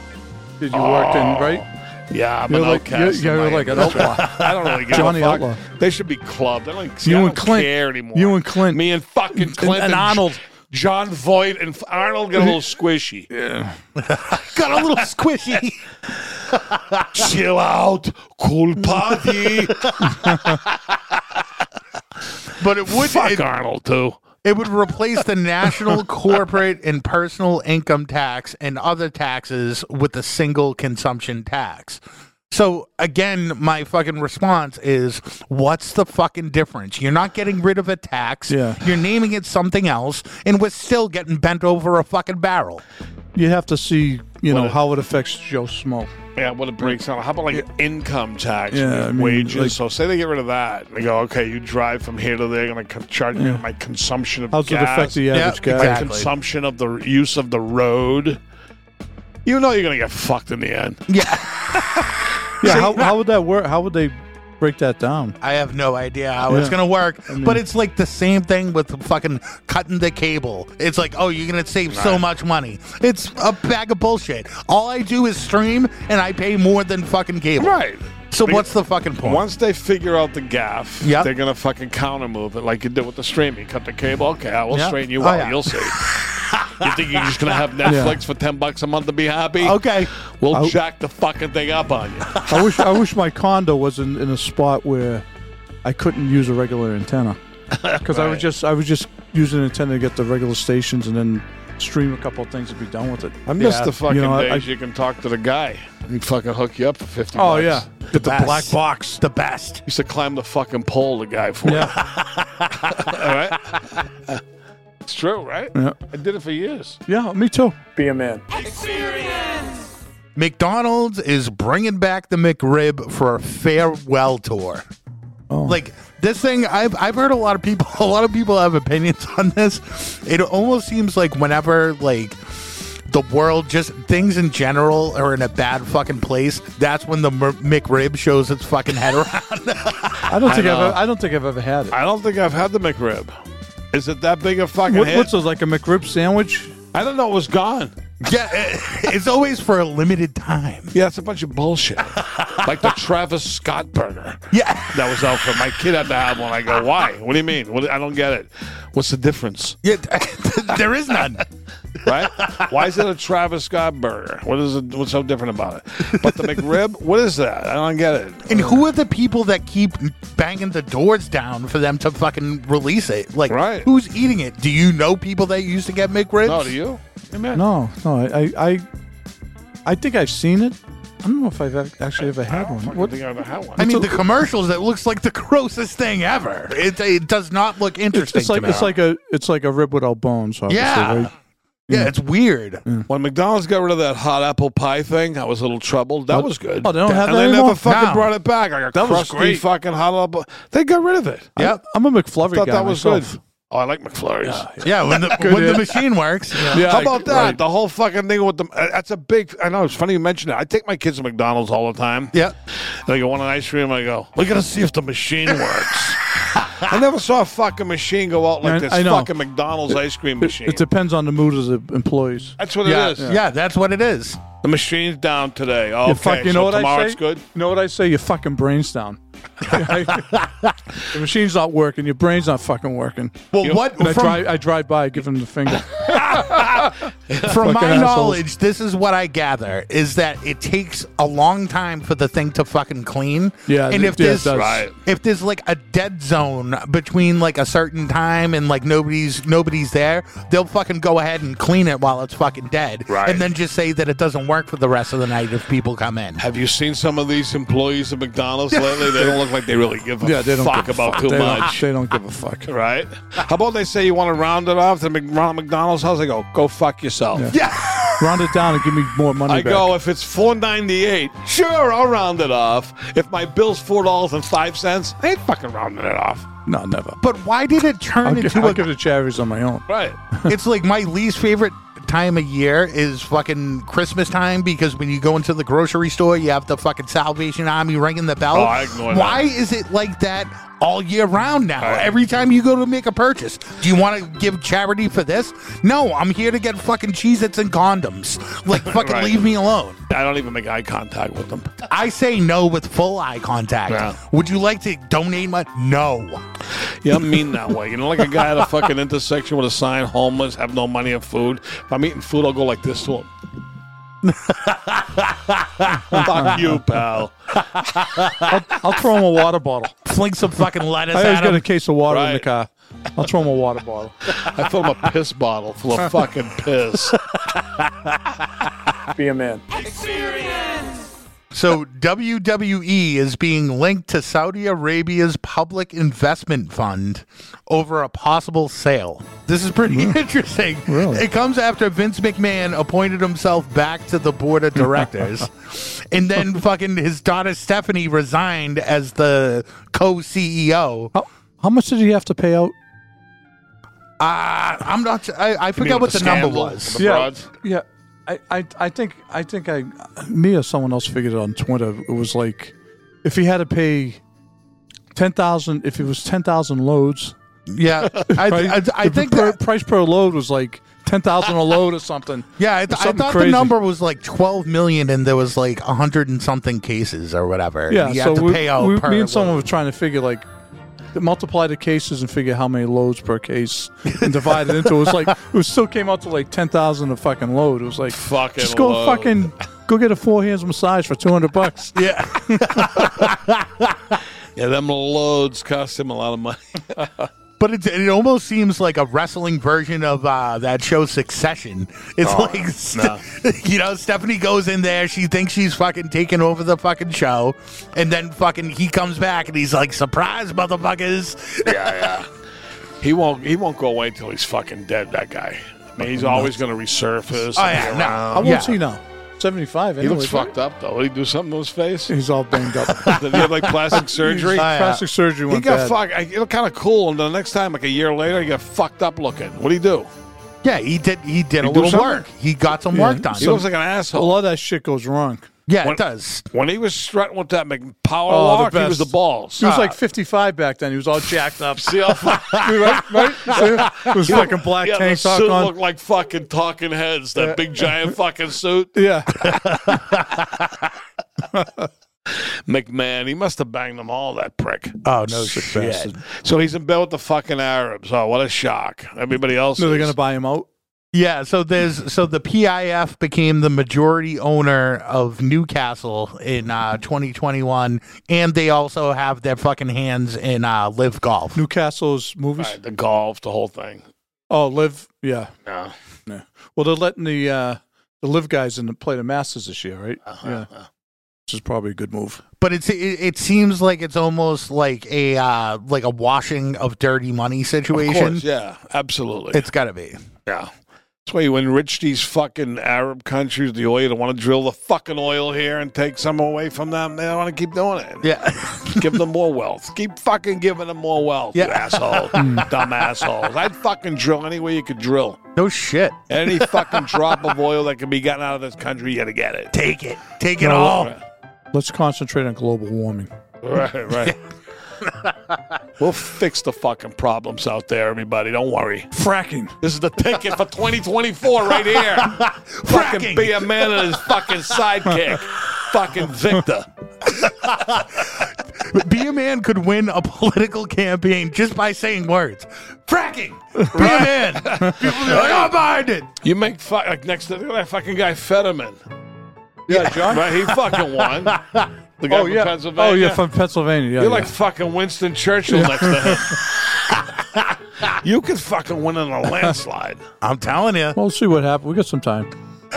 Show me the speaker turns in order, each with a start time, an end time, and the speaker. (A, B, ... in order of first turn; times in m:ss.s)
0:00.6-0:01.6 A
0:00.7-0:13.3 B
0:02.5-0:05.6 A
0:03.9-0:05.1 C
0:07.0-0:10.4 A
0:13.3-0:13.8 A
0:14.0-0:15.8 C
0:16.5-0:17.2 C
0:17.1-0:19.9 B
0:18.8-0:20.4 C
0:20.1-0:20.6 A
0:22.6-0:23.4 C
0:22.9-0:24.2 B
0:24.4-0:42.8 C
0:38.5-0:38.8 A
0:43.3-0:46.1 A
0:44.5-0:44.8 B
0:46.4-0:58.4 B
0:48.7-0:49.8 A
0:53.3-0:53.6 A
0:54.5-0:56.0 A
0:55.3-0:56.3 C
0:59.4-1:01.0 B
1:01.1-1:03.1 C
1:02.6-1:05.4 A
1:02.6-1:02.9 B
1:05.4-1:19.4 C
1:06.5-1:07.6 A
1:11.9-1:12.2 B
1:17.6-1:18.7 B
1:19.2-1:26.1 B
1:21.0-1:21.3 C
1:24.7-1:27.3 C
1:26.8-1:32.4 B
1:27.8-1:28.2 A
1:29.6-1:30.1 C
1:32.4-1:35.2 A
1:35.8-1:37.4 A
1:37.7-1:38.4 B
1:38.0-1:43.5 A
1:43.5-1:48.0 B
1:43.6-1:44.0 C
1:44.0-1:44.6 A
1:47.3-1:49.2 A
1:48.1-1:49.8 C
1:49.9-1:52.0 B
1:51.6-1:51.9 A
1:51.9-1:53.3 C
1:52.9-1:54.4 B
1:55.0-1:57.0 B
1:57.1-1:58.4 A
2:00.4-2:04.8 C
2:05.5-2:05.8 A
2:05.6-2:20.3 C
2:20.3-2:22.0 A
2:20.4-2:21.0 B
2:21.9-2:23.3 B
2:23.9-2:25.3 B
2:24.9-2:26.7 A
2:26.9-2:27.9 B
2:28.2-2:30.9 C
2:30.9-2:39.8 B
2:32.3-2:32.7 C
2:34.5-2:35.6 C
2:39.8-2:41.4 C
2:42.0-2:48.7 B
2:42.4-2:42.7 C
2:46.2-2:46.5 C
2:48.5-2:56.8 C
2:53.5-2:53.9 B
2:56.4-2:57.6 B
2:57.5-2:58.8 A
2:59.8-3:03.1 A
3:02.2-3:03.9 B
3:03.8-3:04.1 A
3:03.8-3:08.9 C
3:08.1-3:11.3 A
3:10.7-3:11.3 C
3:11.9-3:12.8 C
3:13.1-3:21.5 B
3:16.3-3:17.8 A
3:17.8-3:18.3 C
3:18.9-3:19.6 A
3:21.6-3:23.4 A
3:22.5-3:24.7 B
3:24.4-3:26.0 A
3:24.8-3:26.9 C
3:26.6-3:32.4 B
3:26.7-3:27.6 A
3:32.9-3:40.8 B
3:38.6-3:39.3 A
3:39.9-3:42.6 A
3:42.6-3:43.3 B
3:42.8-3:44.4 C
3:44.6-3:47.4 B
3:46.0-3:50.3 A
3:49.8-3:50.7 C
3:51.1-3:53.4 A
3:53.5-3:54.5 C
3:54.0-3:56.9 A
3:55.9-3:57.6 B
3:57.4-4:16.4 C
3:57.5-3:58.4 A
4:03.7-4:04.8 A
4:04.5-4:05.0 B
4:13.1-4:13.5 B
4:16.4-4:21.8 B
4:18.7-4:19.3 C
4:20.2-4:22.7 A
4:22.7-4:27.5 B
4:27.5-4:28.5 C
4:28.2-4:29.9 A
4:29.5-4:36.5 B
4:36.6-4:37.2 A
4:37.2-4:38.9 C
4:38.2-4:40.5 A
4:39.9-4:40.2 B
4:40.5-5:00.0 C
4:48.5-4:49.5 B
4:51.8-4:52.1 B
4:58.8-4:59.4 B
5:00.1-5:01.8 B
5:01.9-5:06.4 C
5:03.9-5:04.2 B
5:07.0-5:13.3 B
5:14.2-5:16.4 C
5:16.2-5:17.6 B
5:16.3-5:16.5 A
5:17.8-5:18.5 C
5:18.5-5:19.9 A
5:20.0-5:21.7 C
5:21.1-5:24.1 A
5:22.1-5:22.5 B
5:24.3-5:27.2 B
5:27.3-5:28.2 C
5:29.2-5:29.6 A
5:31.5-5:51.1 C
5:39.9-5:40.2 A
5:40.9-5:41.2 A
5:44.8-5:45.1 A
5:51.1-5:52.7 A
5:54.2-5:57.1 C
5:55.8-5:57.5 B
5:57.0-6:04.2 A
6:05.1-6:07.3 A
6:07.7-6:09.6 C
6:08.2-6:13.7 A
6:12.6-6:19.6 C
6:17.9-6:20.4 A
6:21.1-6:32.8 A
6:24.1-6:25.3 C
6:28.1-6:29.4 B
6:31.9-6:34.2 C
6:34.6-6:37.3 B
6:37.6-6:52.2 C
6:42.2-6:43.2 B
6:51.6-6:52.3 B
6:53.0-6:58.6 B
6:56.0-6:56.5 A
6:57.5-6:58.8 C
6:58.3-7:00.5 A
7:00.0-7:02.1 B
7:02.1-7:05.9 A
7:02.9-7:03.5 C
7:03.0-7:04.7 B
7:04.5-7:05.0 C
7:05.5-7:10.1 B
7:10.6-7:13.6 C
7:11.6-7:12.2 B
7:12.9-7:15.5 A
7:13.4-7:14.4 B
7:15.7-7:16.4 C
7:15.8-7:19.8 B
7:18.3-7:25.7 A
7:19.6-7:19.9 C
7:21.8-7:23.0 B
7:22.3-7:24.4 C
7:23.6-7:28.9 B
7:27.4-7:27.9 A
7:28.9-7:29.4 A
7:29.4-7:30.8 C
7:31.5-7:31.9 A
7:32.3-7:35.0 B
7:35.0-7:36.1 C
7:35.3-7:36.2 A
7:36.4-7:40.1 B
7:39.8-7:40.7 A
7:41.1-7:51.6 C
7:51.5-7:52.8 A
7:52.6-7:54.0 B
7:54.5-7:55.5 A
7:55.6-7:55.9 B
7:56.3-8:00.7 A
8:00.4-8:00.7 B
8:01.5-8:02.4 A
8:02.6-8:08.4 C
8:07.9-8:09.6 B
8:09.5-8:10.2 C
8:11.2-8:18.3 B
8:18.2-8:19.2 C
8:18.9-8:25.4 B
8:21.5-8:22.6 C
8:22.3-8:22.7 A
8:25.6-8:27.2 C
8:26.3-8:29.7 B
8:29.7-8:31.1 C
8:30.6-8:31.0 A
8:30.7-8:31.2 B
8:31.7-8:33.3 A
8:33.6-8:34.3 B
8:35.0-8:35.6 C
8:36.0-8:39.1 B
8:39.1-8:39.8 A
8:39.8-8:46.9 B
8:41.9-8:44.5 C
8:47.4-8:56.3 C
8:53.8-8:54.2 A
8:54.0-8:55.7 B
8:56.4-8:59.0 B
8:59.9-9:00.5 A
8:59.9-9:01.9 C
9:00.2-9:01.6 B
9:02.2-9:03.4 B
9:02.3-9:04.5 A
9:04.2-9:06.7 B
9:05.7-9:06.4 A
9:08.0-9:10.2 B
9:10.4-9:11.2 C
9:11.1-9:12.5 A